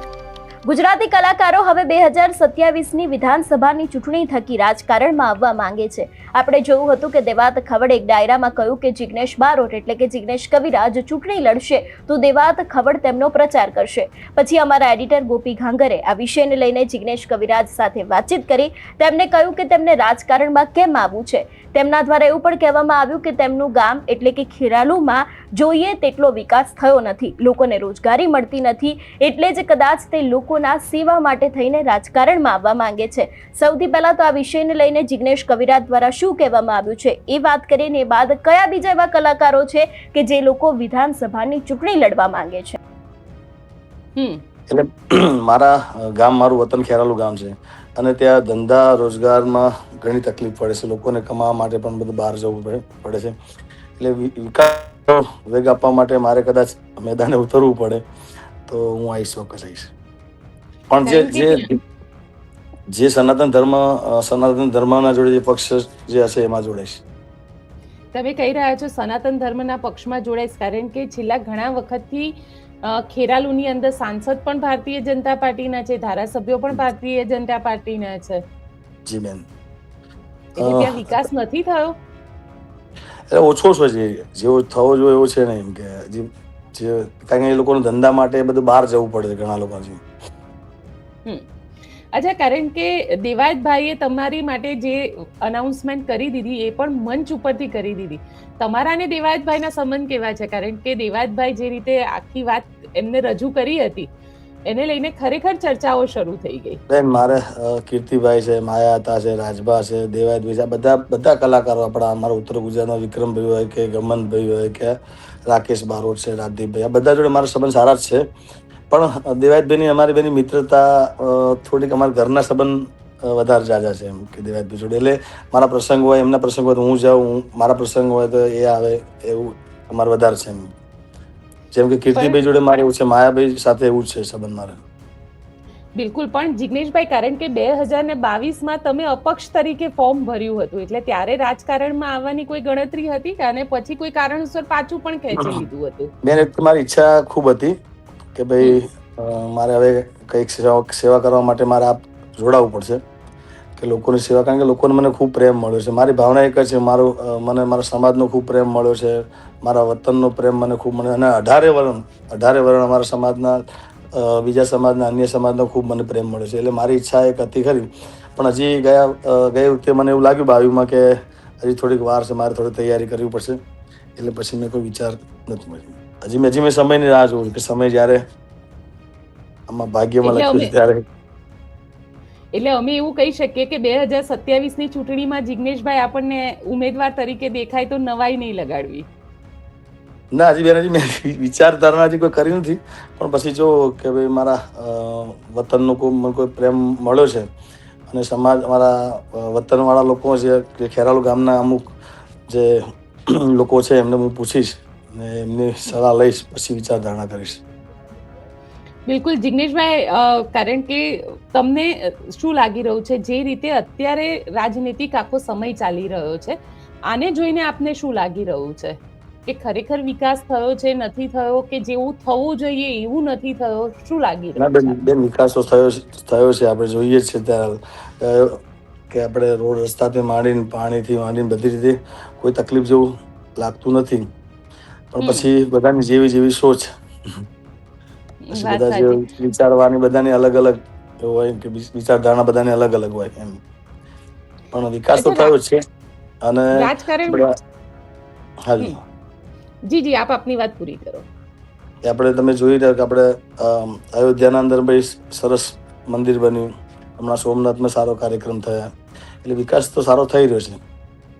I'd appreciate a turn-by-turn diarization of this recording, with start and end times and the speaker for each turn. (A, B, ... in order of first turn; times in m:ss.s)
0:00.6-0:42.8 A
0:44.7-0:53.3 B
0:54.0-0:58.0 B
0:58.7-0:59.9 B
1:00.9-1:01.8 B
1:01.0-1:01.7 C
1:02.9-1:07.0 B
1:08.1-1:18.4 C
1:19.1-1:19.4 B
1:20.5-1:21.9 C
1:20.6-1:21.2 B
1:23.3-1:30.0 B
1:32.1-1:44.1 C
1:44.7-1:46.8 C
1:46.9-1:54.9 B
1:55.5-1:58.2 B
1:58.9-2:10.7 B
2:11.7-2:14.8 B
2:12.1-2:12.4 C
2:16.0-2:26.1 C
2:25.3-2:25.6 B
2:26.2-2:27.7 B
2:28.4-2:33.0 B
2:33.8-2:43.6 B
2:44.1-2:53.6 B
2:54.2-2:58.2 B
2:59.7-3:01.0 B
3:00.2-3:00.7 C
3:02.5-3:09.1 C
3:10.3-3:17.5 B
3:18.1-3:21.9 B
3:22.5-3:27.6 B
3:29.1-3:36.6 C
3:37.1-3:45.0 C
3:44.6-3:54.2 B
3:55.1-3:57.4 B
3:55.2-3:55.5 C
3:58.4-3:59.2 C
3:58.5-4:03.6 B
4:04.7-4:05.8 B
4:05.1-4:05.5 C
4:06.4-4:07.5 B
4:06.7-4:07.4 C
4:08.7-4:09.0 B
4:09.9-4:11.2 C
4:12.0-4:18.9 B
4:19.4-4:20.8 B